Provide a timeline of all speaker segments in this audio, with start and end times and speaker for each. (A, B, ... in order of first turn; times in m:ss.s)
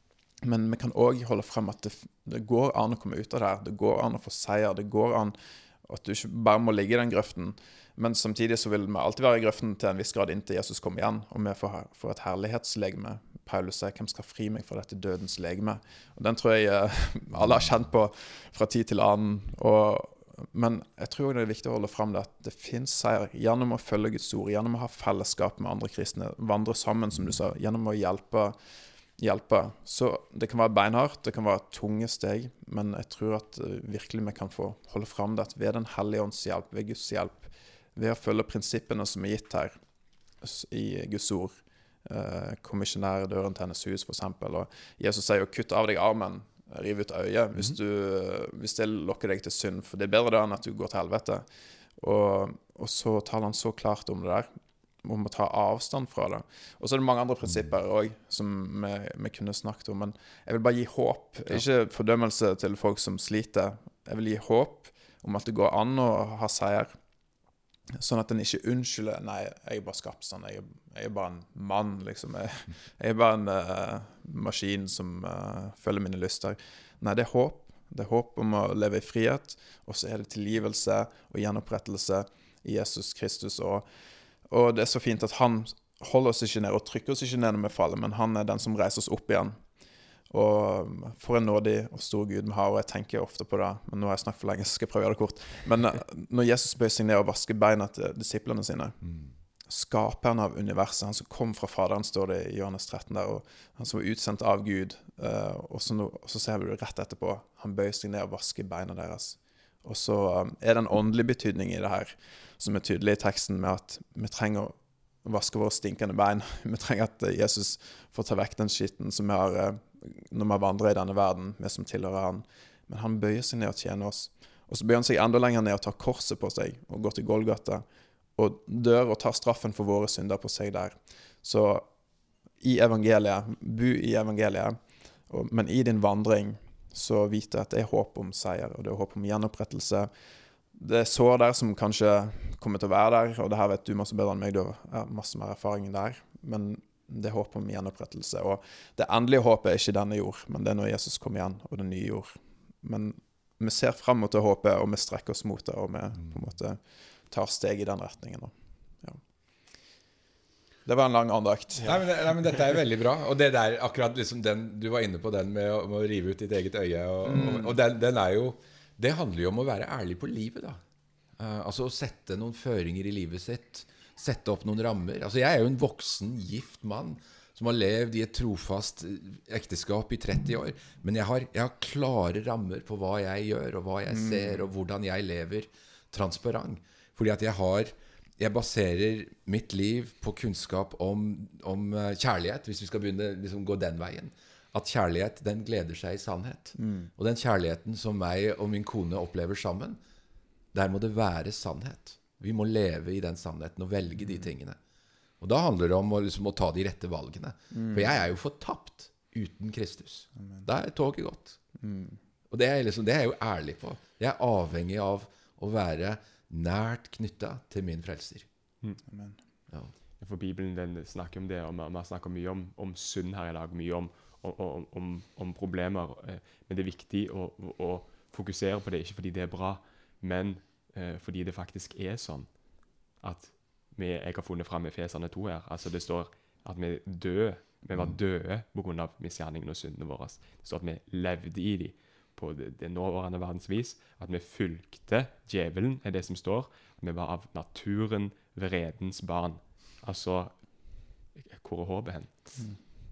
0:00.4-0:28.6 A
0:29.2-0:39.8 A
0:40.4-0:51.5 A
0:52.0-0:54.5 A
0:55.0-1:06.9 A
1:08.0-1:23.9 A
1:24.5-1:29.6 A
1:30.3-1:39.0 A
1:39.7-2:07.8 A
2:08.4-2:11.9 A
2:12.6-2:14.8 A
2:15.3-2:20.1 A
2:20.8-2:39.2 A
2:40.9-2:42.0 A
2:41.8-2:50.8 B
2:47.2-2:47.8 A
2:51.4-3:20.0 B
3:04.1-3:04.6 A
3:16.8-3:17.1 A
3:20.7-3:24.8 B
3:25.4-3:31.6 B
3:27.7-3:28.1 A
3:30.4-3:30.6 A
3:31.8-3:32.2 A
3:32.5-3:38.5 B
3:39.1-3:39.4 A
3:40.2-3:52.6 C
3:53.2-4:12.6 C